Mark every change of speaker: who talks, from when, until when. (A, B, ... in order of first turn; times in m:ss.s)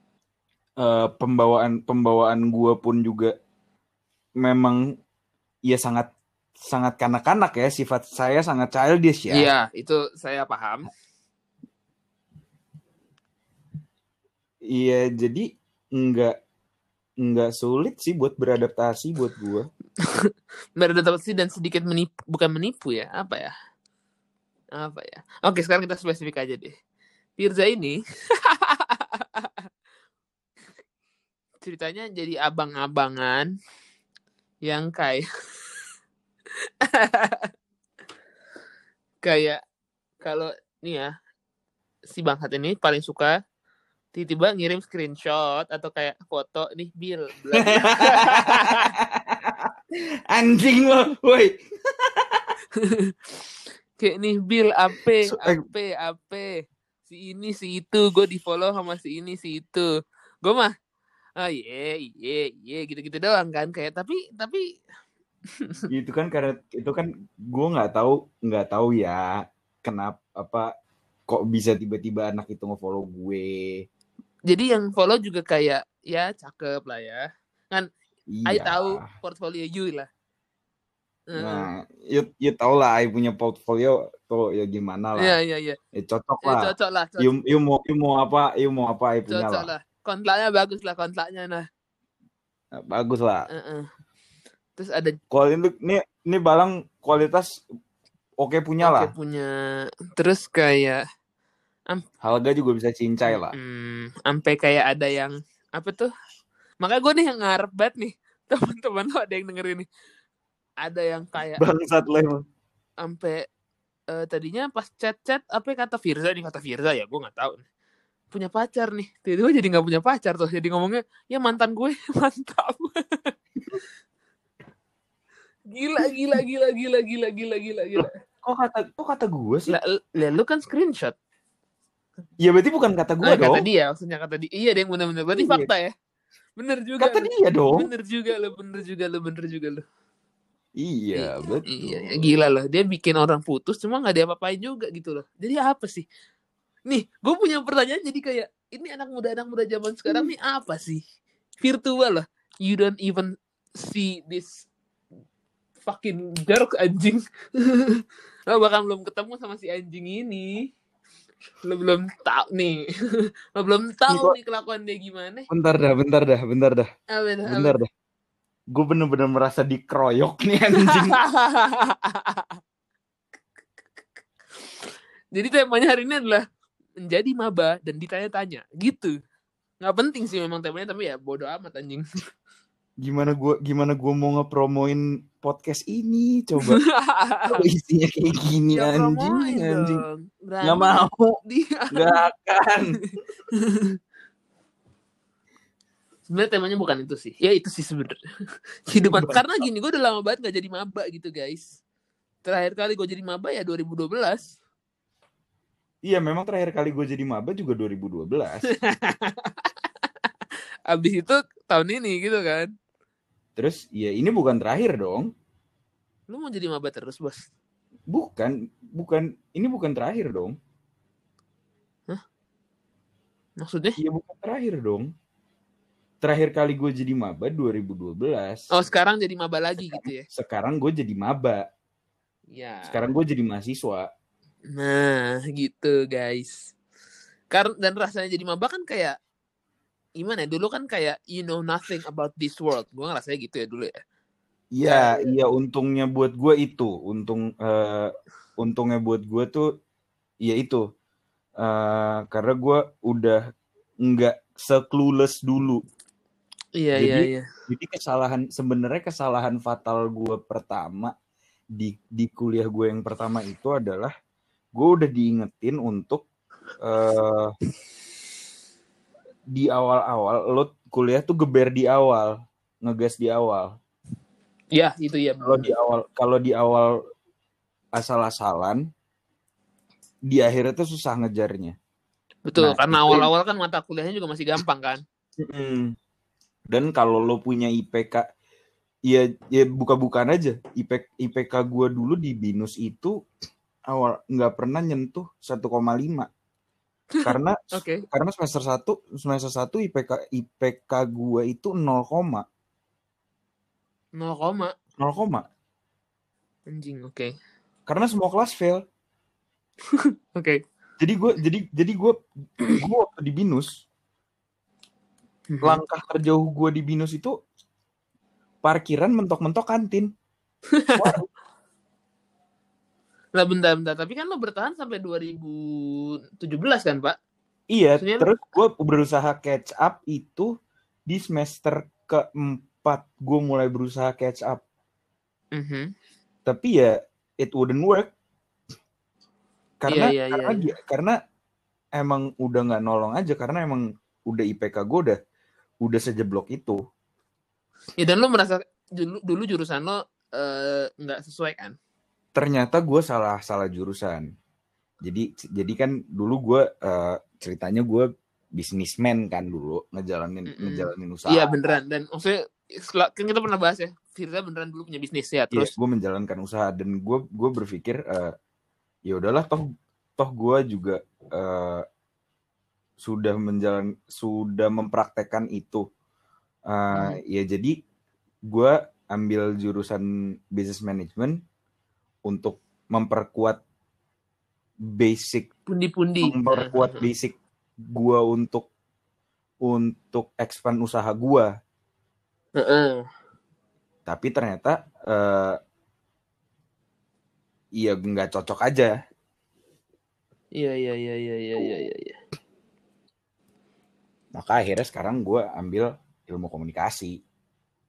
0:00.8-0:03.3 A
0:04.4-0:04.8 A
0:05.7-0:06.1 A
0:06.6-0:09.5 A
0:09.3-0:10.9 B
0:14.7-0:16.3 A
0:17.2-0:19.7 A
0:20.8-0:23.5 B
0:24.8-0:26.7 B
0:27.4-0:29.6 B
0:31.6-0:33.5 B
0:34.6-0:35.3 B
0:36.8-0:37.5 B
0:39.2-0:39.6 B
0:40.2-0:41.1 B
0:42.1-0:43.4 B
0:44.1-0:48.9 B
0:47.6-0:49.7 A
0:50.3-0:52.5 A
0:52.8-0:53.1 B
0:54.0-0:59.9 B
0:55.3-0:55.6 A
1:00.4-1:00.7 B
1:01.4-1:04.7 B
1:05.9-1:10.7 A
1:11.3-1:13.9 A
1:14.5-1:17.9 B
1:18.4-1:19.1 A
1:18.5-1:20.1 B
1:21.3-1:21.7 B
1:21.4-1:25.4 A
1:25.2-1:25.8 B
1:25.9-1:29.7 A
1:26.4-1:27.4 B
1:29.3-1:31.7 B
1:32.7-1:33.5 A
1:33.5-1:33.9 B
1:34.8-1:35.2 B
1:35.3-1:37.6 A
1:38.4-1:39.1 A
1:38.8-1:39.5 B
1:40.1-1:41.0 B
1:42.2-1:43.6 A
1:43.3-1:46.1 B
1:46.8-1:49.9 B
1:50.8-1:51.6 B
1:51.6-1:52.4 A
1:53.0-1:53.4 B
1:54.1-1:57.6 B
1:58.3-2:03.3 B
2:05.7-2:08.1 B
2:08.0-2:09.8 A
2:09.7-2:11.2 B
2:12.4-2:13.6 A
2:13.2-2:15.9 B
2:15.4-2:15.7 A
2:16.6-2:19.8 B
2:17.0-2:17.9 A
2:20.8-2:22.3 A
2:21.2-2:26.1 B
2:26.9-2:31.0 B
2:31.6-2:34.7 B
2:35.8-2:40.7 B
2:41.7-2:42.8 B
2:43.6-2:45.5 B
2:44.1-2:44.4 A
2:45.5-2:46.9 A
2:47.1-2:47.8 B
2:47.5-2:47.9 A
2:48.7-2:51.2 A
2:50.8-2:52.6 B
2:55.3-2:56.4 B
2:57.0-2:59.2 B
2:59.8-3:02.0 B
3:03.0-3:06.8 A
3:06.6-3:07.6 B
3:07.5-3:10.0 A
3:08.8-3:12.2 B
3:10.6-3:11.4 A
3:11.9-3:13.0 A
3:13.1-3:14.0 B
3:16.3-3:18.2 B
3:18.9-3:21.7 B
3:19.0-3:19.5 A
3:22.4-3:24.5 B
3:26.0-3:28.7 A
3:28.7-3:29.7 B
3:30.9-3:32.7 B
3:33.6-3:35.3 A
3:36.3-3:37.5 B
3:38.1-3:40.6 A
3:43.6-3:44.0 B
3:44.0-3:45.1 A
3:46.2-3:48.7 A
3:48.7-3:50.2 B
3:49.8-3:51.7 A
3:52.5-3:53.0 B
3:52.9-3:54.1 A
3:54.7-3:56.7 B
3:57.5-3:59.2 B
4:00.2-4:04.0 B
4:04.8-4:09.7 A
4:04.9-4:05.4 B
4:10.4-4:10.8 A
4:11.6-4:13.4 A
4:14.0-4:15.8 A
4:16.8-4:17.4 B
4:17.0-4:21.1 A
4:21.8-4:24.1 A
4:24.8-4:26.3 A
4:26.8-4:27.5 A
4:29.5-4:33.8 A
4:34.7-4:35.7 B
4:35.4-4:36.9 A
4:38.0-4:38.8 A
4:40.3-4:41.8 A
4:42.5-4:45.0 B
4:42.6-4:43.3 A
4:45.4-4:46.0 A
4:46.7-4:48.2 A
4:49.1-4:53.1 A
4:53.9-4:56.3 A
4:57.2-4:58.0 B
4:57.2-5:02.4 A
5:04.2-5:04.7 B
5:05.0-5:05.4 A
5:06.7-5:07.3 B
5:07.9-5:08.8 A
5:09.9-5:10.6 B
5:11.0-5:13.8 A
5:15.5-5:15.8 B
5:15.6-5:17.3 A
5:18.6-5:20.1 A
5:20.7-5:21.1 B
5:21.0-5:21.2 A
5:23.4-5:27.2 B
5:27.7-5:30.5 A
5:28.0-5:28.3 B
5:31.1-5:34.6 A
5:35.5-5:35.9 B
5:36.5-5:38.1 A
5:39.8-5:41.2 A
5:39.9-5:40.7 B
5:42.0-5:45.2 A
5:45.8-5:46.8 A
5:48.0-5:51.8 B
5:52.4-5:54.3 A
5:55.0-6:01.5 A
6:00.5-6:05.7 B
6:05.5-6:08.3 A
6:09.1-6:09.7 A
6:10.2-6:11.8 A
6:13.0-6:15.8 A
6:16.7-6:17.8 A
6:16.9-6:17.2 B
6:18.5-6:21.4 A
6:22.3-6:23.6 A
6:24.9-6:25.5 A
6:25.7-6:27.1 B
6:26.2-6:28.7 A
6:29.7-6:31.5 A
6:32.6-6:33.0 B
6:34.1-6:35.6 A
6:37.8-6:38.9 A
6:40.6-6:42.2 B
6:44.3-6:47.2 A